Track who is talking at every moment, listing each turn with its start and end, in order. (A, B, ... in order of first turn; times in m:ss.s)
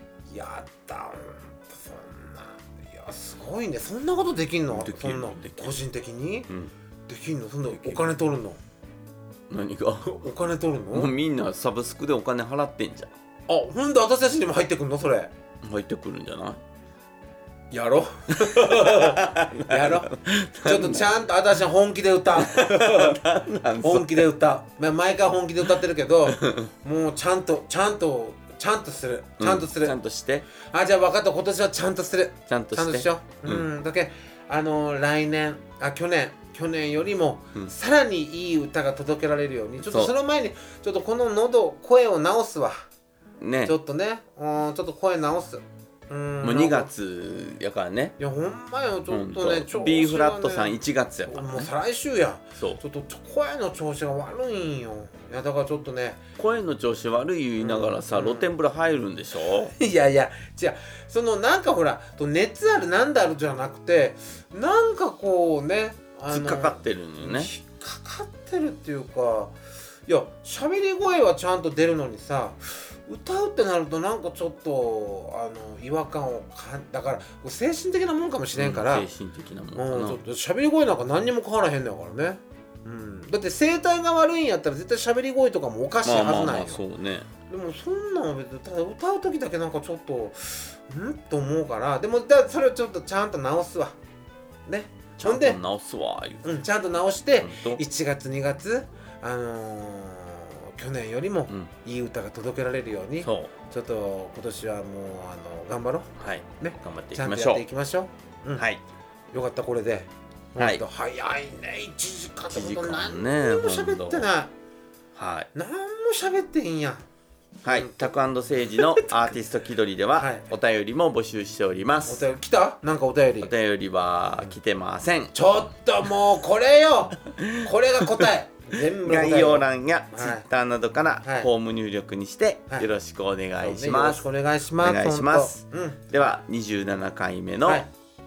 0:00.3-0:06.5 A
0:04.7-0:05.7 B
0:07.1-0:08.6 A
0:09.5-0:10.2 B
0:10.0-0:11.1 A
0:10.9-0:13.1 B
0:13.5-0:15.3 A
0:15.6-0:16.6 B
0:17.7-0:30.0 A
0:18.3-0:21.1 B
0:22.4-0:24.3 B
0:26.3-0:26.7 B
0:29.4-0:30.4 B
0:30.6-0:42.8 A
0:32.5-0:33.6 B
0:39.8-0:40.1 B
0:43.4-0:43.7 B
0:43.6-0:46.9 A
0:46.4-0:48.2 B
0:48.2-0:56.2 A
0:49.1-0:51.7 B
0:56.4-0:59.7 B
0:57.6-0:58.5 A
0:59.7-1:09.5 A
1:06.3-1:07.5 B
1:10.1-1:19.1 A
1:18.6-1:20.2 B
1:19.8-1:26.8 A
1:26.0-1:27.3 B
1:27.5-1:34.0 A
1:34.7-1:35.6 A
1:35.2-1:36.5 B
1:36.4-1:46.1 A
1:37.4-1:37.8 B
1:43.2-1:43.5 B
1:46.2-1:47.6 B
1:46.6-1:48.7 A
1:48.6-1:48.8 B
1:49.3-1:54.5 A
1:50.6-1:50.8 B
1:52.5-1:54.3 B
1:55.1-1:55.5 B
1:55.5-1:57.0 A
1:57.6-2:02.2 B
1:57.7-1:58.1 A
1:58.8-1:59.1 A
2:00.2-2:00.4 A
2:02.0-2:03.5 A
2:03.4-2:05.3 B
2:05.3-2:10.5 A
2:07.3-2:08.3 B
2:08.9-2:14.2 B
2:11.2-2:11.5 A
2:13.6-2:16.0 A
2:14.8-2:17.8 B